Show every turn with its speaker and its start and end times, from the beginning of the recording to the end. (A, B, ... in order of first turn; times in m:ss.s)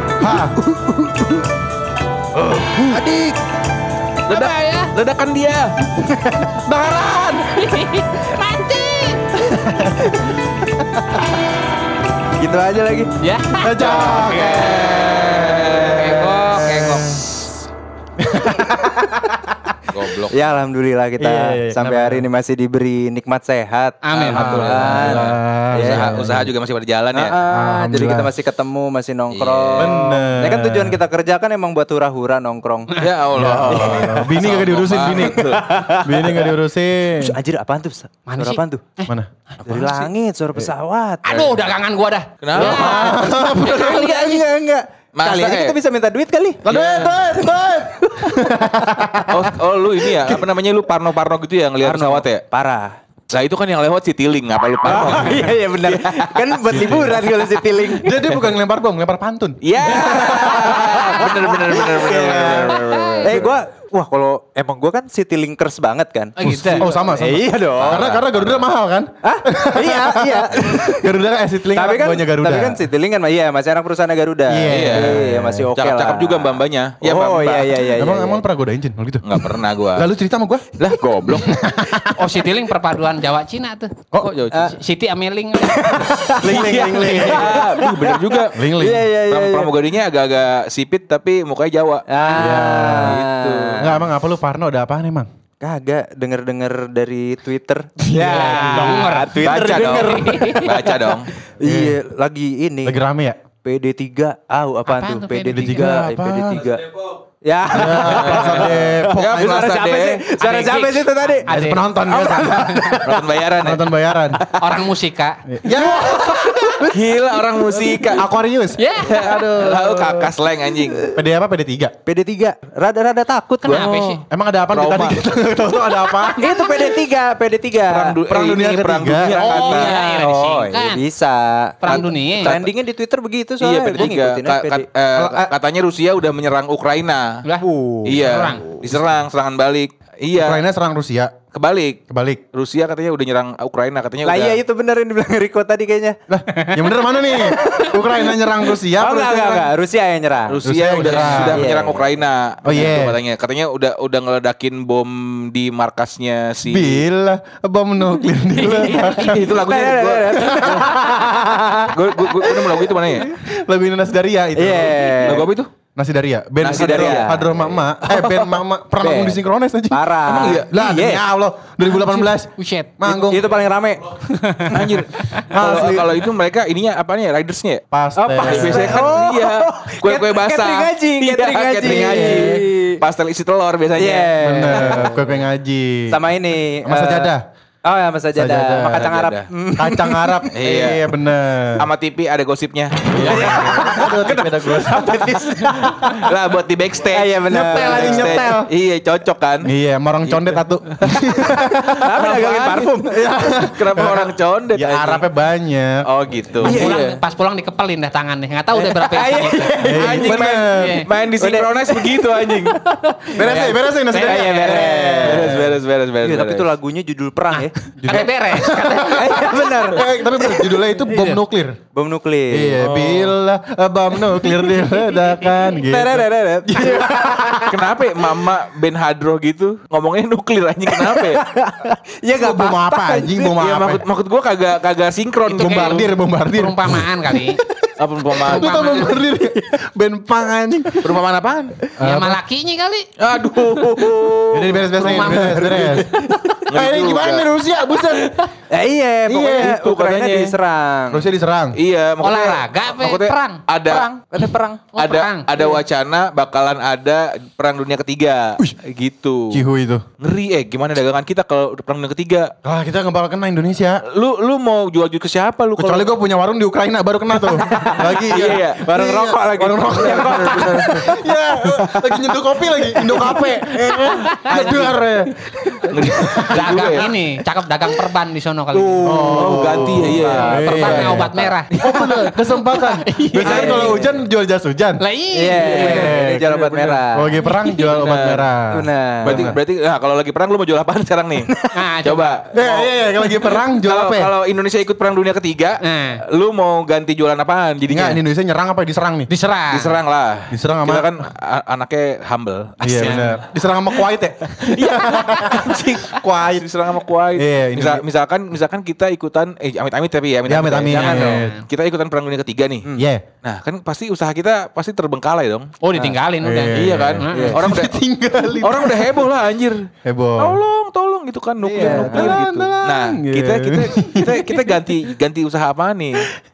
0:00.2-0:00.5 A
0:00.7-0:01.2 B
0:02.3-0:03.0 A
0:02.9-0:03.3 B
0:04.3-0:05.7 C
0:04.3-0:04.9 D
0:06.0-0:06.5 B
0:06.6-0:07.7 A
0:07.5-0:09.2 D
0:09.4-0:10.6 A
0:10.0-0:10.3 B
0:12.4-0:13.1 B
0:13.2-0:13.9 D
0:13.6-0:15.9 A
0:13.8-0:15.2 B
0:13.9-0:16.4 C
0:15.9-0:17.5 D
0:16.4-0:17.4 A
0:18.2-0:18.9 A
0:19.9-0:20.4 C
0:20.3-0:26.4 B
0:21.2-0:22.2 A
0:24.0-0:24.6 D
0:24.1-0:27.4 C
0:24.3-0:26.5 A
0:27.1-0:32.9 B
0:27.5-0:28.3 A
0:29.3-0:30.0 C
0:29.8-0:31.0 A
0:32.9-0:33.2 D
0:33.0-0:36.1 C
0:33.3-0:37.4 A
0:33.6-0:34.4 B
0:35.3-0:36.5 B
0:37.2-0:38.8 B
0:38.3-0:39.6 D
0:39.1-0:40.7 A
0:39.6-0:41.2 B
0:41.2-0:44.4 D
0:41.3-0:41.6 C
0:42.4-0:43.0 C
0:42.6-0:44.2 A
0:42.7-0:49.5 B
0:45.2-0:45.8 C
0:46.6-0:49.5 A
0:46.7-0:47.2 C
0:49.3-0:52.4 C
0:50.0-0:50.4 B
0:51.8-0:53.0 B
0:53.3-0:57.1 C
0:54.8-0:58.2 B
0:56.7-0:57.3 A
0:58.0-1:00.6 A
0:59.6-1:03.5 C
0:59.8-1:08.2 B
1:01.7-1:02.6 A
1:02.7-1:03.4 D
1:06.4-1:06.9 D
1:06.4-1:12.9 A
1:07.7-1:08.3 C
1:09.2-1:11.2 B
1:11.7-1:18.4 B
1:14.5-1:15.7 A
1:14.7-1:17.8 C
1:17.9-1:22.4 A
1:19.2-1:20.1 C
1:20.8-1:21.6 C
1:22.0-1:23.9 D
1:24.2-1:24.7 C
1:24.6-1:25.8 D
1:25.6-1:29.7 B
1:26.4-1:27.6 A
1:26.4-1:33.8 C
1:28.5-1:29.1 A
1:32.1-1:33.9 B
1:32.3-1:33.2 A
1:33.8-1:35.3 A
1:35.6-1:43.0 B
1:38.1-1:40.4 A
1:38.1-1:39.3 D
1:39.4-1:41.3 C
1:40.0-1:40.8 D
1:41.6-1:42.0 A
1:42.8-1:43.4 A
1:43.6-1:46.9 B
1:44.9-1:45.8 D
1:45.5-1:46.6 A
1:47.4-1:51.5 B
1:47.7-1:49.6 A
1:48.0-1:50.2 C
1:50.4-1:51.9 D
1:51.5-1:54.4 A
1:52.0-1:53.2 B
1:52.5-1:52.9 D
1:53.0-1:53.8 C
1:54.6-1:55.4 D
1:55.5-1:56.9 A
1:55.6-1:57.2 B
1:56.9-1:58.2 C
1:57.8-2:00.3 A
1:58.8-1:59.2 D
1:59.0-2:01.1 C
2:01.1-2:01.9 A
2:02.0-2:04.2 B
2:03.6-2:04.2 D
2:04.3-2:06.8 A
2:04.7-2:05.2 C
2:06.4-2:08.2 B
2:07.8-2:10.0 C
2:08.3-2:09.5 A
2:09.2-2:11.0 D
2:09.4-2:14.8 B
2:11.8-2:12.5 D
2:11.9-2:12.7 C
2:13.6-2:17.4 C
2:15.2-2:15.5 A
2:17.4-2:18.6 D
2:17.6-2:18.2 B
2:18.0-2:20.6 C
2:20.4-2:21.3 A
2:21.5-2:22.0 C
2:22.1-2:22.4 A
2:22.5-2:24.6 C
2:24.2-2:26.2 B
2:26.3-2:29.6 A
2:26.5-2:26.8 D
2:27.4-2:28.1 B
2:27.4-2:27.9 D
2:28.9-2:32.0 B
2:30.5-2:37.0 C
2:30.6-2:31.6 A
2:32.6-2:33.2 A
2:36.7-2:39.6 A
2:38.5-2:43.3 B
2:38.8-2:40.9 C
2:40.4-2:41.5 A
2:41.9-2:43.3 C
2:43.2-2:53.5 A
2:44.6-2:45.5 B
2:45.0-2:45.7 C
2:46.6-2:47.4 C
2:46.6-2:49.4 B
2:49.9-2:51.2 B
2:50.2-2:50.7 C
2:51.9-2:52.9 D
2:53.0-2:55.0 B
2:54.3-2:55.4 D
2:54.7-2:57.8 C
2:55.5-2:56.2 A
2:57.9-2:59.1 A
2:58.2-3:03.0 B
2:58.4-3:05.2 C
3:01.8-3:02.6 A
3:04.0-3:05.3 B
3:04.4-3:06.2 A
3:06.1-3:07.3 B
3:06.8-3:07.4 A
3:07.8-3:10.5 B
3:08.3-3:09.1 A
3:08.8-3:09.5 C
3:09.7-3:11.9 A
3:10.5-3:11.1 C
3:11.8-3:15.1 C
3:13.1-3:16.1 A
3:13.2-3:16.3 B
3:16.1-3:19.7 C
3:17.1-3:18.6 B
3:17.5-3:18.7 A
3:19.6-3:22.0 A
3:20.2-3:21.2 C
3:21.9-3:23.3 B
3:22.0-3:22.9 C
3:23.1-3:26.0 A
3:23.7-3:25.2 C
3:26.0-3:27.2 C
3:26.6-3:26.9 A
3:26.6-3:27.1 B
3:26.6-3:29.8 D
3:28.7-3:30.4 B
3:29.8-3:31.0 A
3:29.9-3:32.8 C
3:30.7-3:31.1 D
3:31.4-3:32.8 B
3:32.9-3:35.0 D
3:33.3-3:35.7 A
3:34.2-3:41.0 B
3:35.2-3:36.7 C
3:37.5-3:39.0 D
3:38.0-3:41.8 A
3:41.0-3:41.4 D
3:41.9-3:42.8 B
3:42.5-3:47.8 A
3:42.8-3:43.3 C
3:44.3-3:45.1 B
3:45.7-3:47.8 B
3:47.6-3:51.4 C
3:50.9-3:53.5 B
3:52.3-3:54.0 A
3:53.5-3:56.1 C
3:55.5-3:57.6 D
3:55.5-3:57.9 A
3:58.0-3:59.1 C
3:58.4-4:01.2 A
3:58.4-3:59.2 D
4:01.0-4:01.7 C
4:02.0-4:02.4 A
4:02.0-4:03.1 D
4:03.2-4:06.0 C
4:03.6-4:04.5 B
4:04.5-4:06.1 A
4:05.0-4:06.6 B
4:05.0-4:05.8 D
4:06.7-4:07.4 C
4:06.7-4:08.4 A
4:08.7-4:11.3 B
4:09.2-4:09.8 A
4:09.6-4:10.5 C
4:11.1-4:11.8 A
4:11.8-4:14.1 C
4:12.2-4:13.6 D
4:13.9-4:14.8 B
4:14.9-4:15.5 D
4:15.0-4:19.6 C
4:19.5-4:20.0 A
4:20.2-4:22.5 C
4:22.6-4:24.0 A
4:24.1-4:26.1 C
4:25.8-4:35.3 A
4:27.4-4:31.2 B
4:28.3-4:28.8 C
4:29.9-4:31.0 C
4:31.7-4:32.3 C
4:33.0-4:34.9 B
4:35.9-4:37.1 C
4:35.9-4:36.7 A
4:36.5-4:39.5 D
4:38.8-4:41.4 C
4:39.0-4:45.0 A
4:40.3-4:41.7 D
4:41.8-4:42.2 B
4:43.0-4:43.7 D
4:43.4-4:44.1 B
4:43.4-4:44.2 C
4:45.0-4:46.1 D
4:45.3-4:47.4 B
4:45.6-4:47.0 C
4:45.6-4:46.5 A
4:47.1-4:49.6 A
4:47.4-4:47.9 D
4:47.7-4:48.5 C
4:48.7-4:49.5 B
4:49.2-4:51.5 C
4:51.7-4:52.4 D
4:52.0-4:58.2 C
4:52.5-4:54.3 A
4:55.8-4:56.2 D
4:57.9-4:59.3 A
4:59.3-5:00.0 D
4:59.7-5:03.3 C
5:00.5-5:01.1 A
5:02.8-5:06.7 A
5:02.8-5:03.4 D
5:04.6-5:12.8 C
5:07.3-5:08.0 A
5:10.5-5:11.6 A
5:10.9-5:11.6 D
5:13.0-5:13.2 A
5:13.4-5:15.7 C
5:15.8-5:17.6 D
5:16.4-5:19.2 A
5:16.7-5:17.9 C
5:17.3-5:17.6 B
5:18.6-5:26.3 C
5:20.0-5:20.6 A
5:21.6-5:24.4 A
5:21.7-5:22.4 B